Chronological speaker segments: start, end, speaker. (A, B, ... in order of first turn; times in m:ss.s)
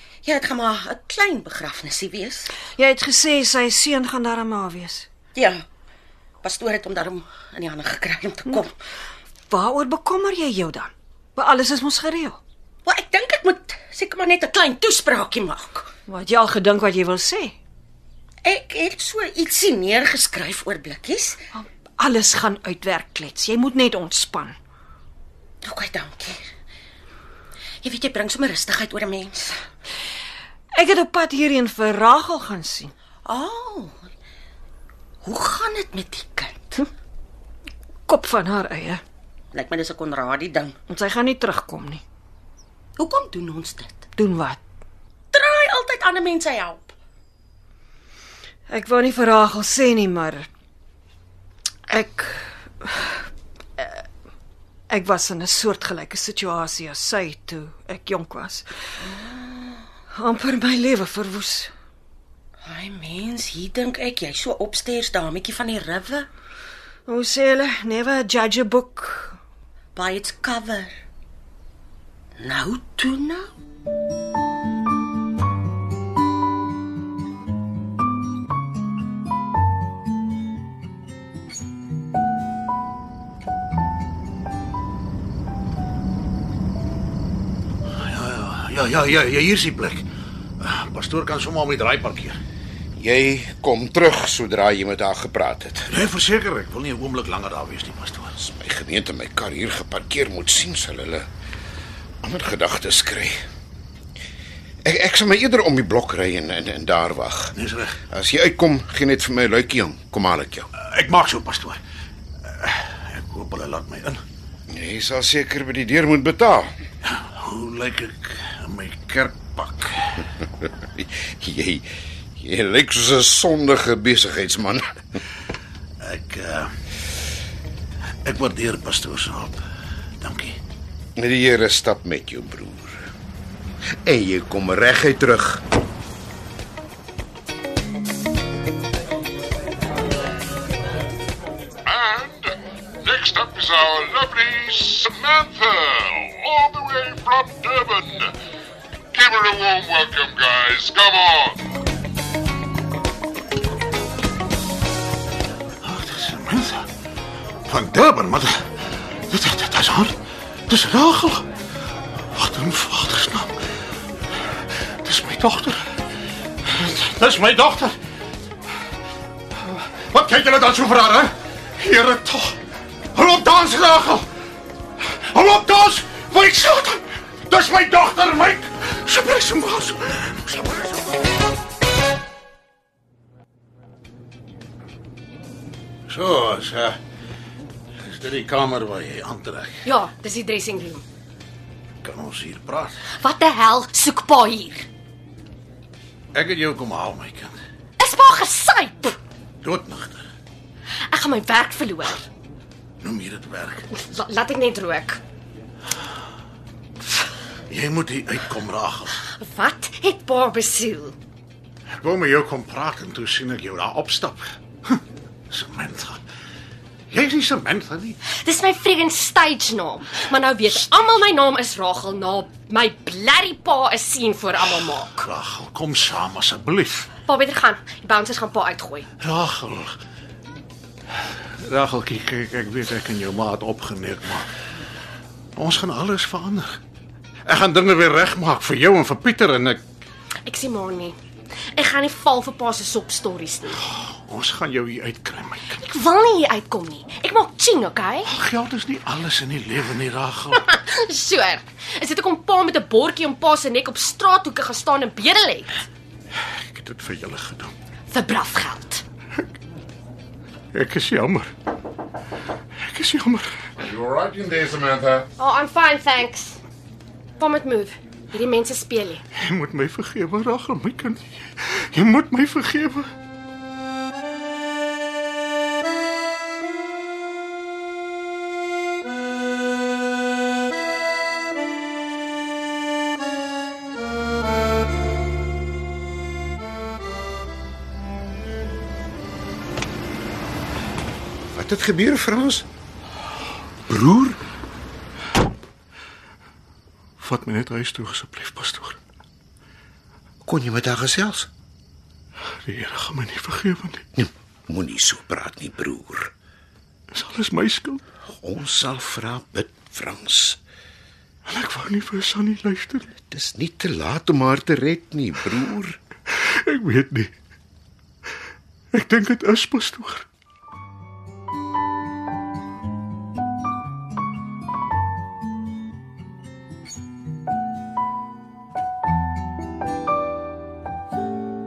0:00.2-0:02.5 A
0:02.8-0:05.1 B
0:05.3-0:05.6 A
0:06.4-0:08.7 A
0:09.5-0:12.4 B
0:12.8-0:15.9 A
0:16.1-0:17.5 B
0:18.4-0:21.4 A
0:21.5-0:24.6 B
0:25.6-0:26.5 A
0:27.8-0:29.6 A
0:30.7-0:32.9 B
0:33.2-0:34.1 A
0:35.2-0:36.8 A
0:38.1-0:39.0 B
0:39.5-0:40.8 A
0:40.9-0:42.0 B
0:43.0-0:44.0 A
0:44.2-0:44.6 B
0:45.3-0:46.9 A
0:48.7-0:50.5 B
0:51.9-0:54.0 B
0:54.9-0:58.7 B
0:59.0-0:59.8 A
1:00.1-1:01.7 B
1:02.6-1:06.3 A
1:07.0-1:09.4 B
1:09.9-1:10.9 A
1:12.4-1:13.5 A
1:28.0-1:30.0 C
1:30.6-1:32.4 C
1:33.0-1:35.9 D
1:35.9-1:38.3 C
1:38.4-1:41.3 D
1:42.2-1:43.4 D
1:44.8-1:47.5 D
1:47.5-1:48.0 C
1:48.1-1:50.7 D
1:50.8-1:51.8 C
1:52.5-1:54.2 C
1:54.7-1:56.7 D
1:57.0-2:00.2 C
2:00.6-2:04.9 D
2:06.0-2:06.7 C
2:08.2-2:09.6 C
2:10.2-2:10.6 C
2:11.2-2:13.0 D
2:14.0-2:15.6 D
2:21.8-2:22.5 E
2:23.0-2:28.3 E
2:29.1-2:31.6 E
2:35.8-2:36.9 C
2:37.7-2:38.6 C
2:39.3-2:40.2 C
2:40.7-2:41.5 C
2:42.3-2:43.6 C
2:45.0-2:45.9 C
2:46.6-2:48.0 C
2:49.6-2:52.6 C
2:53.1-2:54.3 C
2:55.2-3:01.1 C
3:06.1-3:07.0 C
3:08.0-3:09.8 C
3:09.8-3:11.0 F
3:12.0-3:12.9 C
3:13.2-3:14.9 F
3:16.3-3:17.5 C
3:18.0-3:19.2 F
3:19.6-3:20.3 C
3:21.1-3:22.2 F
3:23.0-3:23.8 C
3:23.9-3:25.2 F
3:27.7-3:29.2 C
3:29.3-3:31.1 F
3:32.0-3:36.2 C
3:37.1-3:38.2 C
3:38.3-3:45.2 F
3:45.1-3:47.1 C
3:47.2-3:49.1 F
3:49.2-3:50.0 C
3:51.6-3:54.4 C
3:55.6-3:56.8 C
3:57.4-3:59.8 C
4:00.4-4:01.2 F
4:01.7-4:03.8 F
4:03.9-4:05.8 C
4:05.7-4:08.3 F
4:08.3-4:10.6 C
4:10.5-4:15.8 F
4:16.5-4:17.7 C
4:18.1-4:19.0 F
4:20.7-4:21.5 C
4:22.8-4:23.7 C
4:23.8-4:25.3 D
4:25.4-4:26.6 F
4:27.4-4:29.2 F
4:29.4-4:33.1 C
4:51.5-4:52.6 D
4:53.9-4:54.4 D
4:57.2-4:59.0 C
5:00.4-5:01.5 D
5:02.6-5:04.0 C
5:04.2-5:06.3 D
5:07.1-5:08.0 C
5:08.3-5:10.6 D
5:11.5-5:13.1 C
5:13.2-5:16.0 D
5:16.3-5:17.3 C
5:18.9-5:20.2 C